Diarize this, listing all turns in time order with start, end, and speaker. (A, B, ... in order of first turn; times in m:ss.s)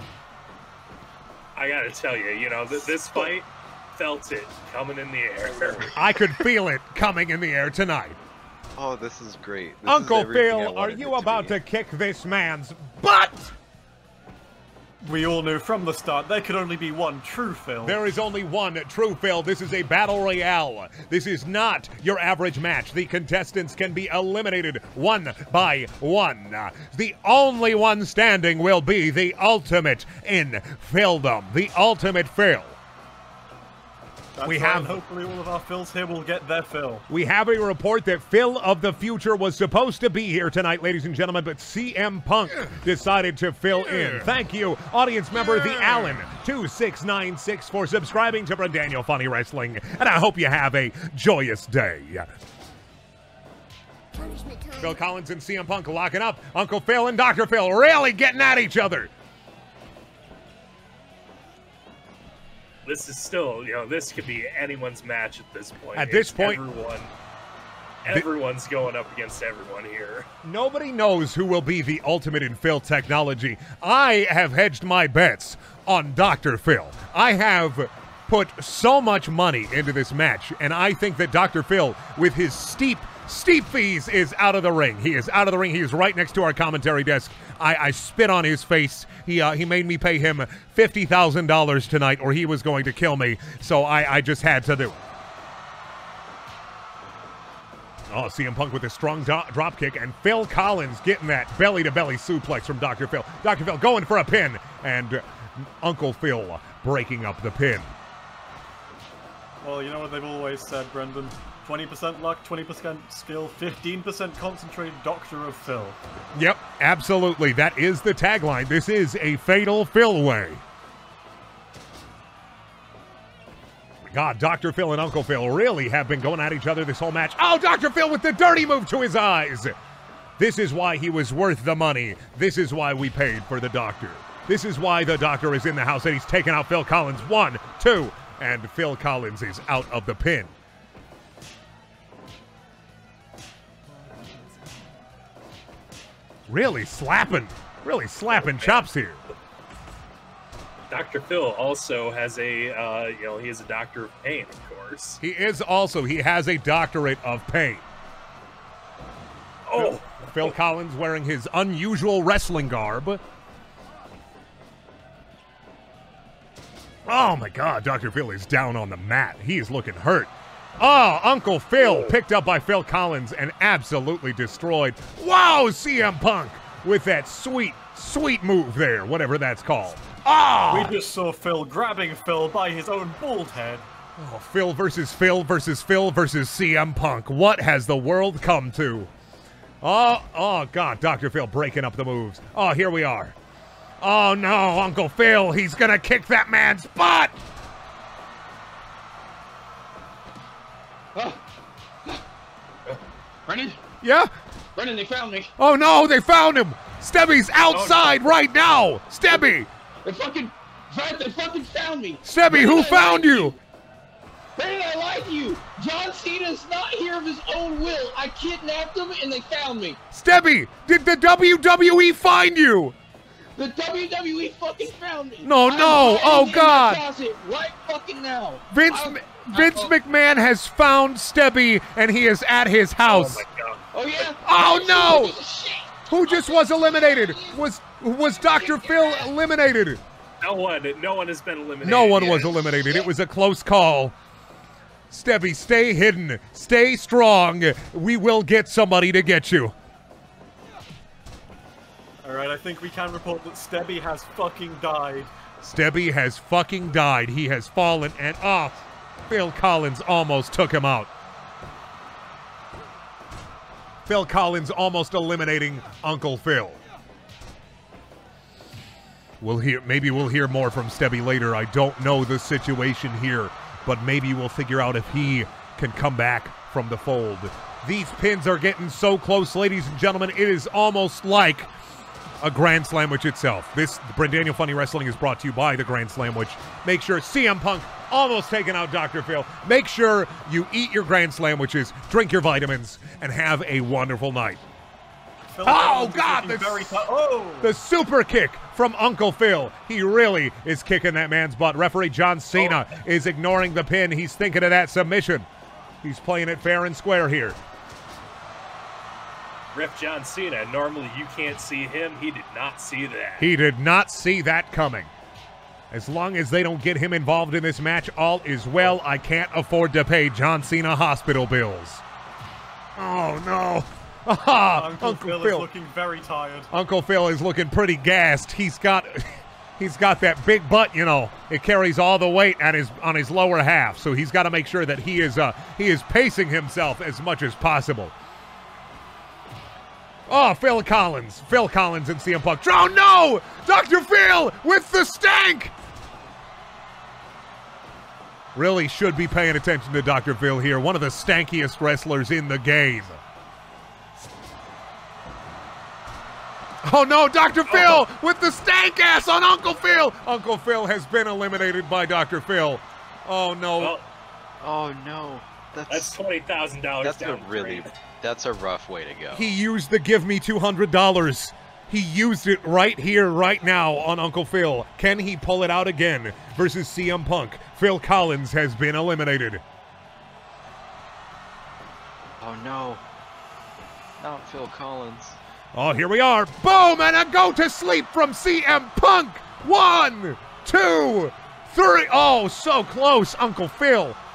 0:01.6-0:05.9 A
0:05.9-0:08.2 B
0:08.7-0:11.6 C
0:09.8-0:13.5 B
0:15.0-0:18.0 D
0:17.8-0:32.8 B
0:34.4-0:37.0 D
0:34.4-0:35.0 B
0:37.1-0:52.3 B
0:54.7-0:59.1 B
1:02.8-1:07.1 A
1:05.9-1:06.6 B
1:08.0-1:10.3 A
1:10.4-1:35.0 B
1:38.1-1:47.9 B
1:49.6-1:56.0 D
1:56.3-2:00.6 B
2:04.0-2:09.7 B
2:10.4-2:20.5 B
2:26.5-2:29.2 B
2:28.3-2:28.9 A
2:30.9-2:35.2 A
2:35.2-2:37.8 B
2:39.7-2:40.5 A
2:39.7-2:43.2 B
2:47.0-3:00.9 B
2:51.8-2:52.1 A
3:00.7-3:03.8 D
3:04.2-3:09.1 B
3:09.8-3:13.3 B
3:14.0-3:17.4 B
3:21.1-3:21.4 E
3:23.4-3:23.8 E
3:24.0-3:24.3 B
3:24.8-3:25.5 E
3:25.6-3:29.7 B
3:27.7-3:28.3 A
3:30.0-3:33.6 E
3:32.2-3:33.6 B
3:34.6-3:40.0 E
3:40.1-3:43.0 B
3:43.6-3:50.0 E
3:45.4-3:47.0 B
3:48.7-3:53.4 B
3:53.0-3:53.8 A
3:53.9-3:57.6 E
3:54.2-3:55.4 B
3:56.1-4:00.0 B
3:58.3-3:59.3 E
4:00.4-4:02.9 A
4:01.8-4:04.1 B
4:05.1-4:09.7 B
4:12.2-4:15.3 D
4:15.6-4:21.1 B
4:24.0-4:26.8 B
4:29.4-4:41.7 B
4:42.4-4:54.6 B
4:55.6-4:57.7 D
4:55.6-4:57.0 B
4:57.6-5:05.5 B
5:02.5-5:02.8 A
5:06.0-5:07.6 B
5:09.7-5:13.5 A
5:13.4-5:15.1 B
5:15.9-5:22.0 B
5:23.0-5:25.7 B
5:24.7-5:26.7 D
5:26.7-5:38.1 B
5:40.3-5:45.7 B
5:48.5-5:53.2 B
5:56.8-6:03.9 B
5:57.7-5:58.0 A
6:03.8-6:04.0 A
6:04.6-6:06.2 C
6:05.9-6:07.9 A
6:07.0-6:09.6 C
6:09.3-6:19.6 B
6:22.4-6:23.0 C
6:24.2-6:25.4 C
6:25.7-6:34.2 B